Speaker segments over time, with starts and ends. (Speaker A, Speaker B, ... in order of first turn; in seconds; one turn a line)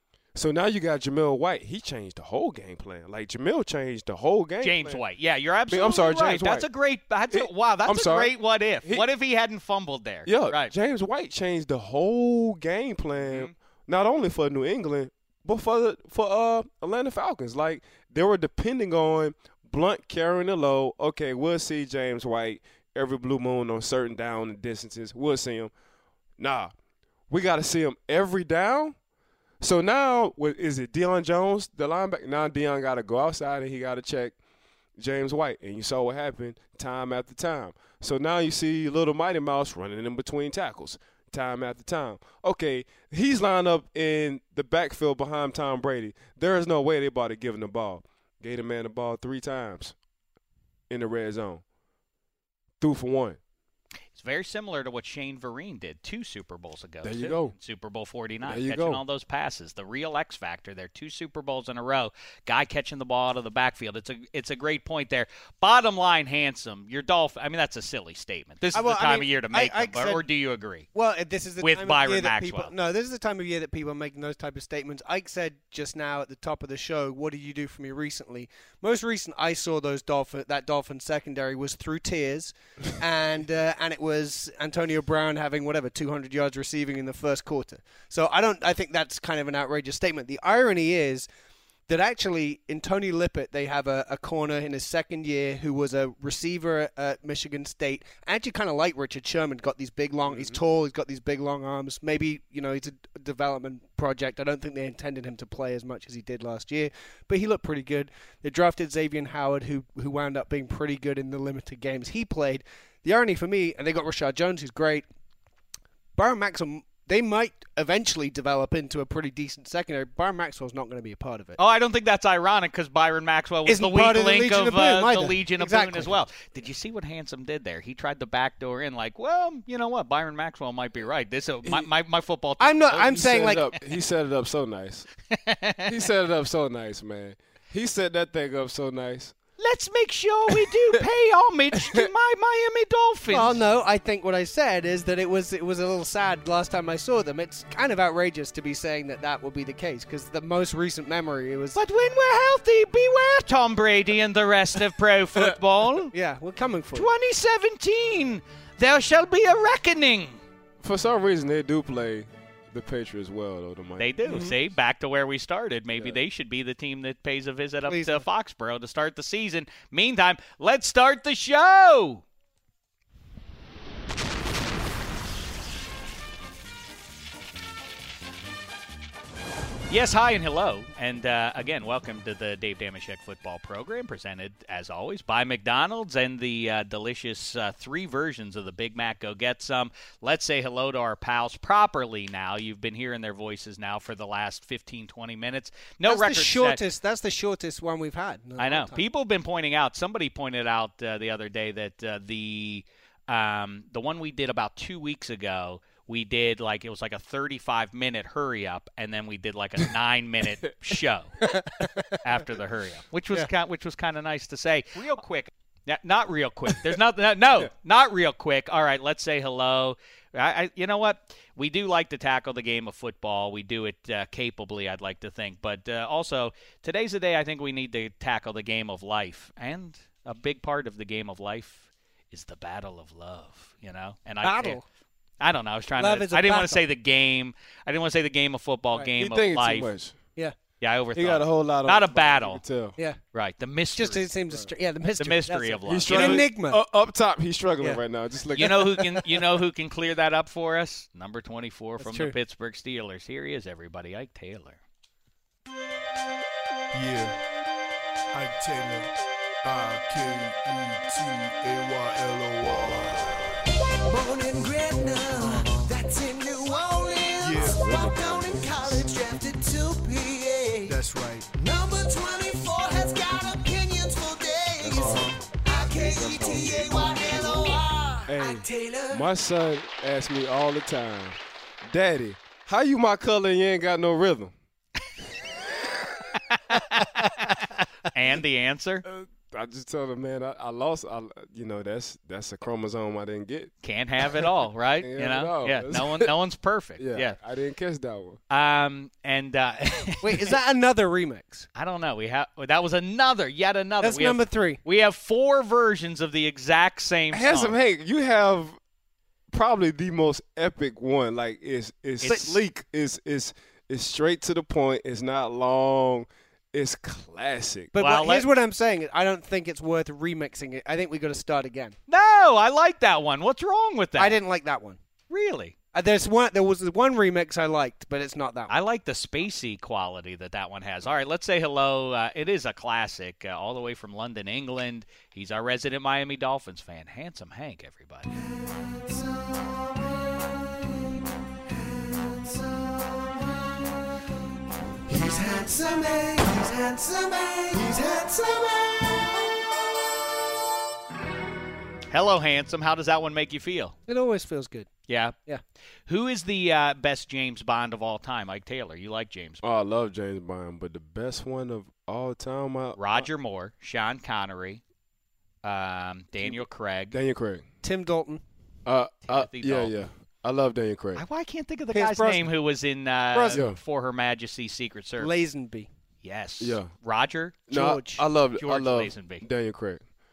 Speaker A: 0.3-5.0
Speaker B: 4.6-10.7
Speaker A: 5.7-6.7
Speaker A: 7.3-8.3
Speaker A: 10.2-25.7
Speaker B: 13.2-13.5
Speaker A: 26.4-26.7
Speaker A: 27.3-29.0
Speaker A: 29.6-34.3
Speaker A: 35.0-50.0
Speaker A: 50.9-51.6
Speaker A: 52.8-53.4
Speaker B: 54.1-70.9
Speaker A: 57.0-57.5
Speaker A: 58.4-59.0
Speaker C: 68.7-70.2
Speaker C: 70.9-91.3
Speaker B: 71.6-72.7
Speaker C: 91.9-115.0
Speaker A: 100.2-100.6
Speaker C: 116.2-121.6
Speaker B: 121.6-133.7
Speaker C: 123.7-126.1
Speaker C: 132.6-133.6
Speaker A: 133.0-135.1
Speaker B: 135.3-135.9
Speaker A: 135.8-139.3
Speaker B: 139.6-143.6
Speaker C: 143.3-151.8
Speaker B: 151.7-156.1
Speaker C: 156.1-157.1
Speaker B: 156.9-160.4
Speaker A: 160.8-164.1
Speaker B: 164.0-172.2
Speaker C: 164.2-164.5
Speaker C: 167.9-168.2
Speaker B: 179.9-196.8
Speaker C: 196.1-199.0
Speaker B: 198.6-211.4
Speaker C: 211.4-212.1
Speaker B: 212.2-234.8
Speaker C: 234.4-234.8
Speaker B: 235.4-239.9
Speaker C: 236.0-236.8
Speaker A: 239.2-240.2
Speaker B: 240.8-242.6
Speaker A: 241.1-242.9
Speaker B: 243.3-244.3
Speaker C: 243.9-246.8
Speaker B: 245.2-246.5
Speaker A: 245.8-249.1
Speaker B: 248.5-254.8
Speaker C: 252.0-252.3
Speaker D: 256.9-257.4
Speaker D: 258.3-263.5
Speaker E: 264.1-271.0
Speaker D: 267.4-268.1
Speaker A: 267.6-269.0
Speaker D: 270.9-271.5
Speaker E: 271.5-279.2
Speaker A: 274.8-275.3
Speaker D: 274.9-275.3
Speaker D: 275.9-277.5
Speaker A: 276.2-276.9
Speaker A: 278.3-284.5
Speaker B: 286.5-289.0
Speaker A: 289.0-293.7
Speaker B: 293.8-297.4
Speaker A: 295.0-296.3
Speaker A: 297.0-298.4
Speaker B: 298.5-300.6
Speaker C: 300.2-301.7
Speaker B: 301.8-307.7
Speaker C: 304.0-304.8
Speaker A: 307.3-308.8
Speaker A: 309.5-317.9
Speaker B: 312.2-312.6
Speaker C: 317.9-321.9
Speaker B: 317.9-318.5
Speaker B: 322.1-324.4
Speaker C: 324.1-325.0
Speaker B: 325.3-325.7
Speaker C: 325.9-328.7
Speaker B: 328.7-338.3
Speaker C: 345.1-347.0
Speaker E: 345.3-348.4
Speaker C: 347.7-348.1
Speaker B: 352.1-353.9
Speaker C: 354.1-354.9
Speaker B: 355.1-355.3
Speaker B: 356.1-359.6
Speaker A: 359.6-363.3
Speaker B: 363.0-364.8
Speaker B: 365.6-367.1
Speaker A: 367.1-367.6
Speaker C: 367.8-368.4
Speaker A: 368.9-371.2
Speaker B: 369.3-369.9
Speaker B: 371.1-375.3
Speaker C: 371.9-372.5
Speaker C: 373.3-373.6
Speaker A: 373.5-373.8
Speaker C: 375.2-375.9
Speaker B: 376.2-377.6
Speaker A: 376.6-376.9
Speaker A: 377.7-380.0
Speaker C: 377.7-378.2
Speaker B: 378.6-379.4